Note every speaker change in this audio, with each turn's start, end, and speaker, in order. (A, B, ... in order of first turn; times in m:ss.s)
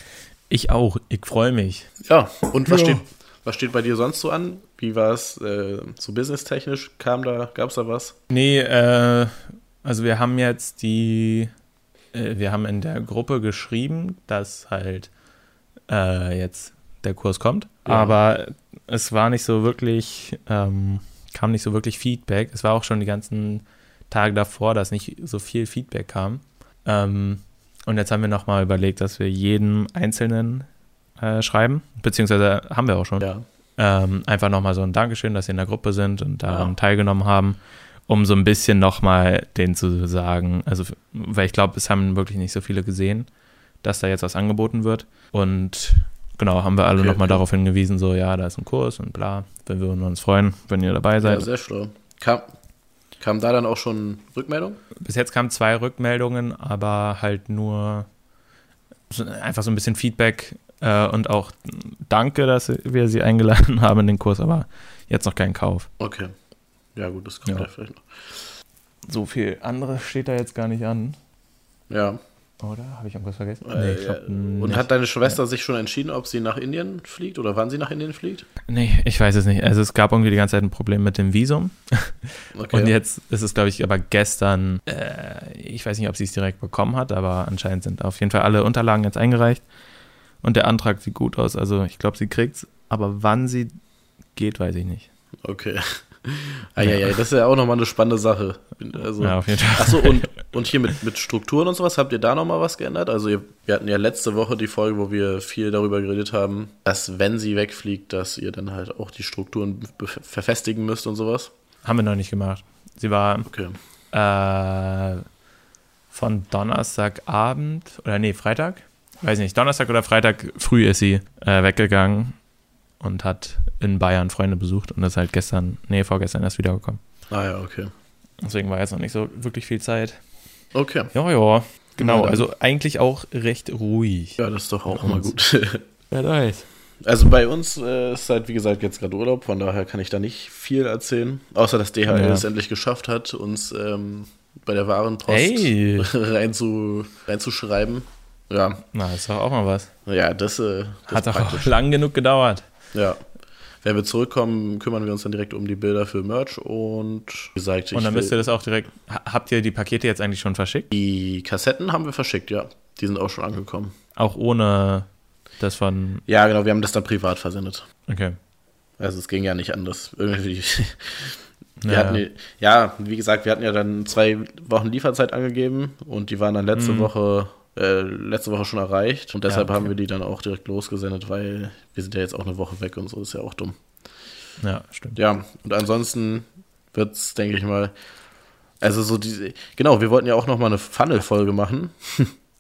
0:00.5-0:01.9 A
0:02.0-0:08.2 B
0:02.7-0:03.0 A
0:08.3-0:11.5 A
0:12.1-0:15.1 A
0:15.9-0:30.7 A
0:17.9-0:18.2 B
0:31.2-0:33.3 A
0:33.8-0:43.3 A
0:36.5-0:36.7 B
0:43.8-0:51.5 A
0:47.0-0:47.4 B
0:51.2-0:52.4 B
0:53.2-0:54.8 B
0:55.0-0:58.1 A
0:59.1-1:05.9 A
1:06.0-1:06.3 B
1:07.0-1:08.0 B
1:09.1-1:11.2 A
1:11.9-1:12.2 B
1:12.6-1:15.4 A
1:13.6-1:18.5 B
1:18.7-1:29.6 A
1:22.6-1:23.0 B
1:30.4-1:33.7 A
1:34.4-1:35.1 A
1:35.4-1:51.5 B
1:36.8-1:37.2 A
1:39.2-1:40.3 A
1:51.8-1:53.5 A
1:53.5-1:53.8 B
1:54.1-1:55.2 A
1:56.1-2:02.4 A
2:03.0-2:07.0 A
2:07.3-2:07.9 B
2:08.4-2:10.2 A
2:10.7-2:11.1 B
2:11.1-2:14.4 A
2:12.0-2:12.5 B
2:14.4-2:15.8 B
2:14.9-2:15.3 A
2:16.1-2:16.7 A
2:17.0-2:28.8 B
2:22.1-2:22.5 A
2:25.3-2:26.1 A
2:28.9-2:29.9 A
2:30.1-2:31.8 B
2:31.1-2:32.6 A
2:32.9-2:33.2 B
2:33.8-2:38.4 B
2:37.9-2:40.9 A
2:40.9-2:43.9 B
2:44.2-2:45.1 A
2:45.6-2:46.2 A
2:46.3-2:47.9 B
2:48.1-2:48.4 A
2:49.0-2:51.3 B
2:51.8-2:52.2 A
2:51.9-3:03.8 B
2:56.8-2:57.1 A
2:59.5-2:59.9 A
3:04.6-3:05.2 A
3:05.2-3:07.9 B
3:08.8-3:12.3 B